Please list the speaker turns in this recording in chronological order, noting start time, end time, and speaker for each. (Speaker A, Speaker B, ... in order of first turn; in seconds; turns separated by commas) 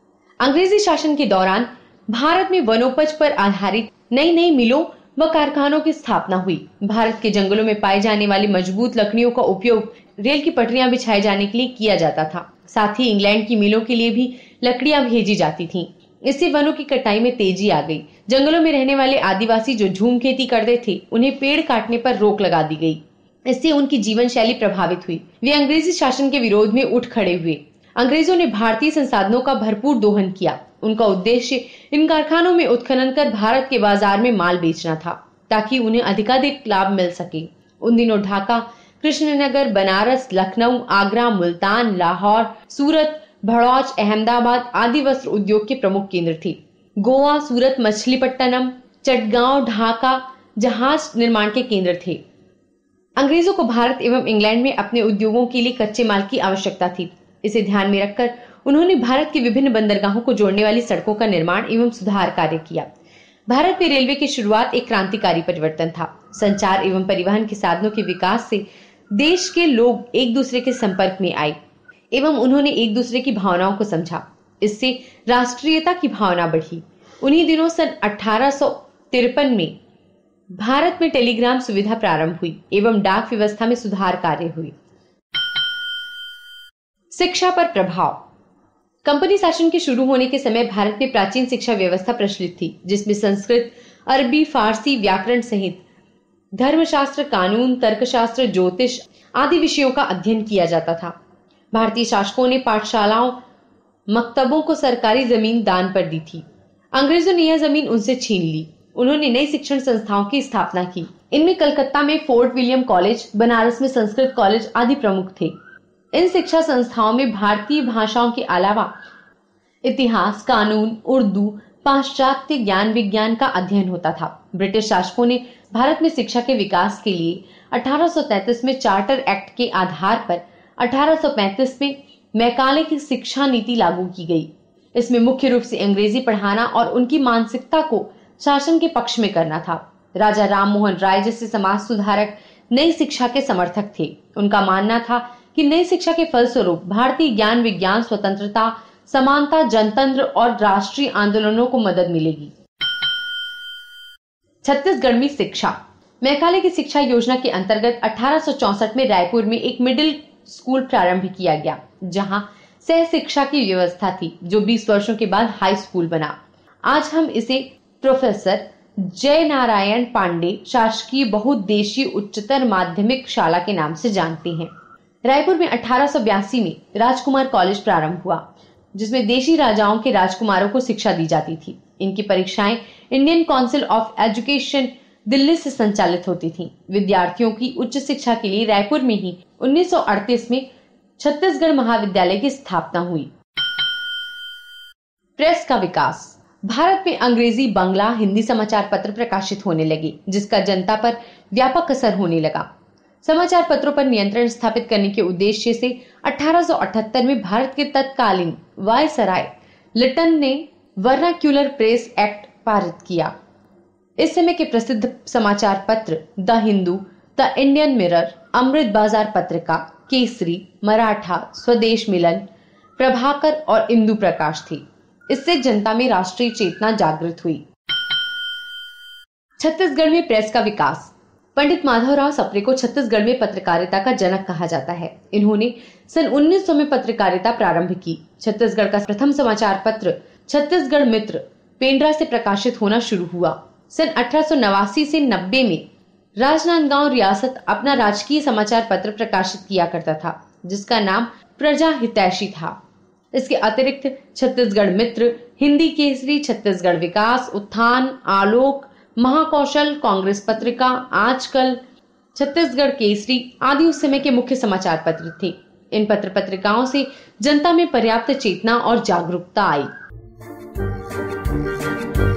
Speaker A: 0.4-52.2, Speaker A: 53.2-62.9, Speaker A: 63.5-71.6, Speaker A: 72.1-79.8, Speaker A: 80.6-84.8, Speaker A: 87.1-88.2, Speaker A: 89.0-95.8, Speaker A: 96.6-101.2, Speaker A: 101.7-103.4, Speaker A: 104.1-115.5, Speaker A: 116.1-118.9, Speaker A: 119.8-152.5, Speaker A: 154.6-166.4, Speaker A: 166.9-174.7, Speaker A: 175.2-190.7, Speaker A: 191.2-193.3, Speaker A: 195.4-202.7, Speaker A: 203.2-213.3, Speaker A: 214.2-222.4, Speaker A: 223.0-227.7, Speaker A: 229.6-245.8, Speaker A: 246.4-252.8, Speaker A: 253.3-261.8, Speaker A: 262.4-269.9